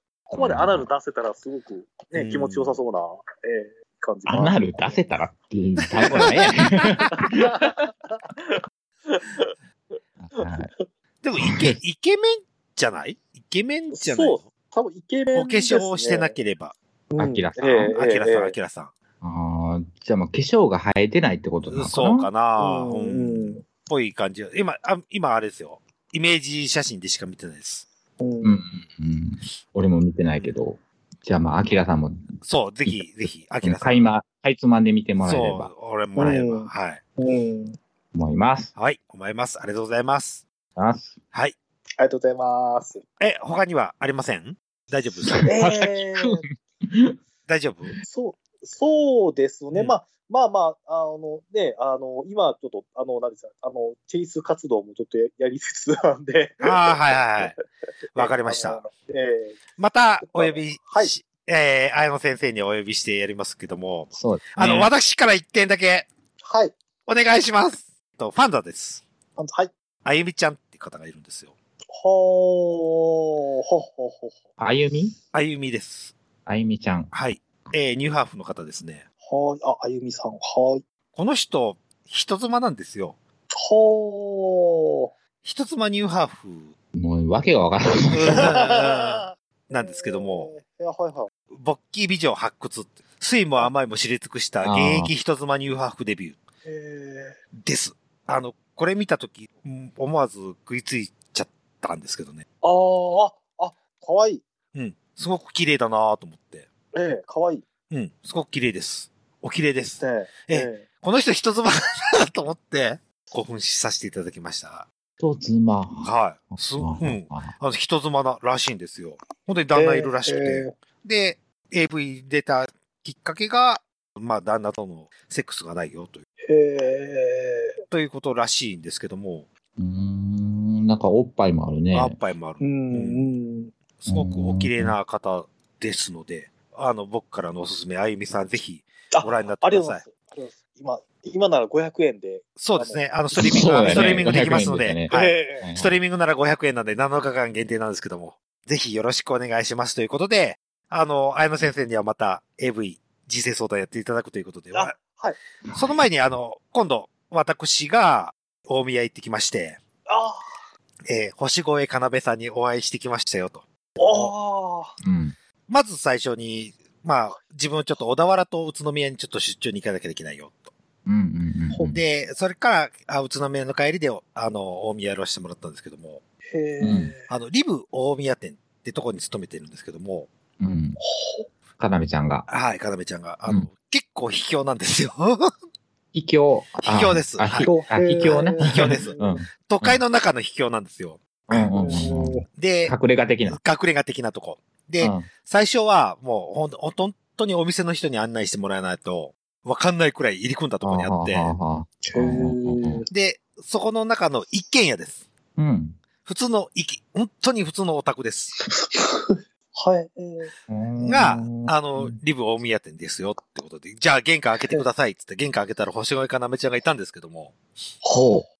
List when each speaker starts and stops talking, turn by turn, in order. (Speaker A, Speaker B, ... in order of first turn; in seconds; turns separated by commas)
Speaker A: 0.3-4.7, Speaker B: 0.3-0.9, Speaker C: 2.1-2.8, Speaker B: 4.2-7.7, Speaker A: 7.1-9.5, Speaker B: 10.2-10.7, Speaker A: 10.4-10.8, Speaker C: 11.2-14.4, Speaker B: 11.4-11.8, Speaker A: 13.9-16.3, Speaker C: 15.3-16.7, Speaker A: 17.1-18.5, Speaker B: 17.2-17.9, Speaker C: 17.8-18.9, Speaker B: 19.2-22.3, Speaker C: 21.7-27.9, Speaker A: 22.6-23.6, Speaker A: 28.2-28.5, Speaker B: 28.4-32.2, Speaker C: 32.4-34.1, Speaker B: 33.6-35.7, Speaker C: 35.2-37.0, Speaker A: 36.1-37.8, Speaker B: 38.1-38.7, Speaker C: 38.7-40.4, Speaker B: 40.8-41.1, Speaker A: 42.0-43.0, Speaker C: 43.2-45.5, Speaker B: 45.2-47.1, Speaker A: 45.5-46.4, Speaker C: 47.5-47.9, Speaker A: 48.0-57.5, Speaker C: 56.6-57.5, Speaker C: 58.1-58.8, Speaker A: 58.1-59.6, Speaker C: 59.8-66.1, Speaker A: 60.2-61.1, Speaker B: 64.2-64.9, Speaker A: 66.4-66.7, Speaker C: 67.1-69.0, Speaker A: 69.4-69.7, Speaker C: 70.0-71.5, Speaker A: 71.9-74.4, Speaker B: 74.6-75.2, Speaker C: 75.3-76.1, Speaker B: 76.5-77.1, Speaker C: 77.1-79.0, Speaker A: 79.2-80.8, Speaker C: 81.1-83.2, Speaker A: 83.5-85.1, Speaker C: 85.4-86.7, Speaker B: 86.9-88.5, Speaker C: 88.1-90.5, Speaker A: 88.2-91.3, Speaker C: 91.5-96.4, Speaker B: 94.6-95.1, Speaker A: 96.7-97.4, Speaker C: 97.6-102.4, Speaker A: 102.6-104.4, Speaker C: 104.7-106.7, Speaker A: 106.9-107.6, Speaker C: 107.9-114.8, Speaker A: 110.0-110.8, Speaker B: 115.2-117.5, Speaker C: 116.0-126.2, Speaker A: 119.7-120.7, Speaker A: 126.4-127.8, Speaker C: 127.9-129.5, Speaker B: 129.8-132.2, Speaker C: 131.9-133.2, Speaker A: 132.6-133.7, Speaker C: 134.0-140.0, Speaker B: 134.1-134.9, Speaker A: 139.2-144.5, Speaker C: 142.6-155.0, Speaker B: 143.3-145.9, Speaker A: 145.1-145.6, Speaker A: 154.7-155.4, Speaker C: 155.7-159.8, Speaker A: 160.1-160.4, Speaker C: 161.1-164.3, Speaker A: 164.0-165.0, Speaker B: 165.0-165.3, Speaker C: 165.7-170.7, Speaker B: 171.1-172.0, Speaker C: 171.7-176.2, Speaker A: 176.5-177.3, Speaker B: 176.8-177.1, Speaker C: 177.3-180.3, Speaker B: 180.6-181.0, Speaker A: 181.0-181.5, Speaker B: 181.8-182.4, Speaker C: 182.5-185.5, Speaker B: 186.1-190.0, Speaker C: 186.8-187.7, Speaker A: 187.6-189.3, Speaker C: 188.3-191.4, Speaker B: 191.5-193.6, Speaker A: 191.5-192.4, Speaker C: 192.6-192.9, Speaker C: 193.4-201.5, Speaker B: 195.0-195.3, Speaker B: 200.8-203.0, Speaker A: 202.0-203.1, Speaker C: 203.1-205.2, Speaker B: 205.6-206.0, Speaker C: 206.2-208.5, Speaker A: 208.6-211.2, Speaker B: 210.7-212.2, Speaker C: 211.1-217.6, Speaker A: 218.0-218.4, Speaker B: 218.1-218.4